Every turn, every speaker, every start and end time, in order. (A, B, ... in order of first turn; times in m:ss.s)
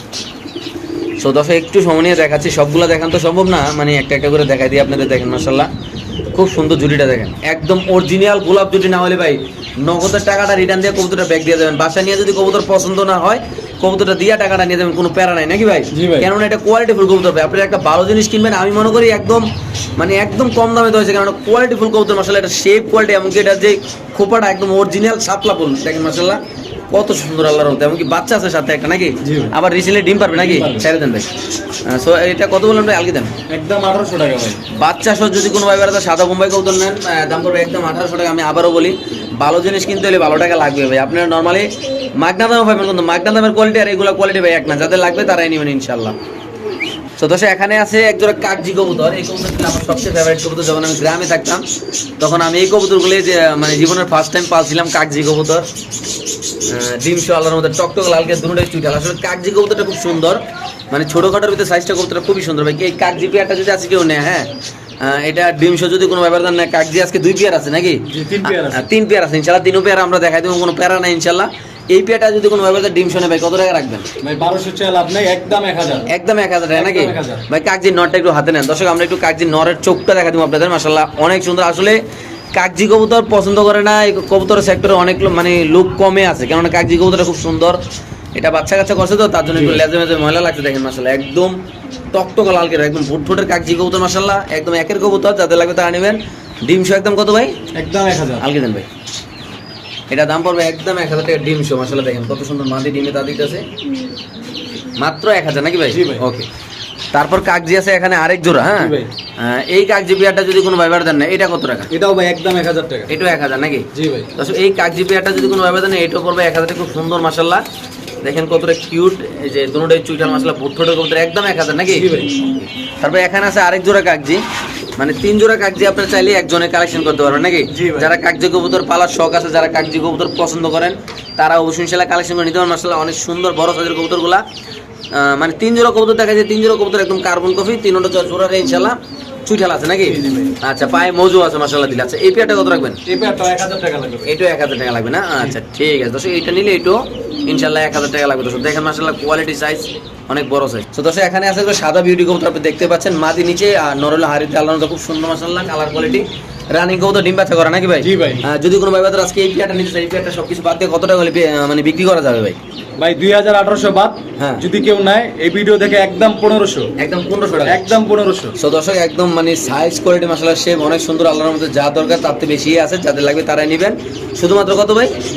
0:01.2-0:05.7 A
0:06.3-0:19.4 A
0:15.9-0:16.3 B
0:20.0-0:26.4 A
0:26.9-0:31.3 A
0:29.2-0:29.5 B
0:30.3-0:30.9 B
0:31.8-0:33.3 A
0:33.5-0:34.6 B
0:34.7-0:46.2 A
0:47.2-0:51.6 A
0:52.2-0:55.6 A
0:56.7-1:04.5 A
1:05.0-1:14.1 A
1:08.1-1:08.9 B
1:14.2-1:16.1 B
1:16.1-1:22.0 A
1:16.7-1:17.4 B
1:22.5-1:27.8 A
1:28.4-1:31.5 A
1:29.5-1:29.8 B
1:32.1-1:37.5 A
1:37.7-1:38.4 B
1:38.4-1:38.9 A
1:40.1-1:43.6 A
1:45.0-1:46.5 A
1:45.9-1:46.2 B
1:47.1-1:51.9 A
1:48.8-1:49.1 B
1:51.9-1:53.1 B
1:53.1-1:57.6 A
1:53.9-1:54.3 B
1:58.2-2:02.5 A
2:01.9-2:02.3 B
2:03.0-2:04.4 A
2:05.0-2:14.4 A
2:07.7-2:08.1 B
2:15.1-2:23.0 A
2:20.0-2:20.5 B
2:23.1-2:24.3 B
2:24.2-2:42.6 A
2:38.0-2:38.4 B
2:43.0-2:46.9 B
2:44.4-2:44.6 A
2:47.0-2:47.8 A
2:47.6-2:48.5 B
2:48.6-2:55.1 A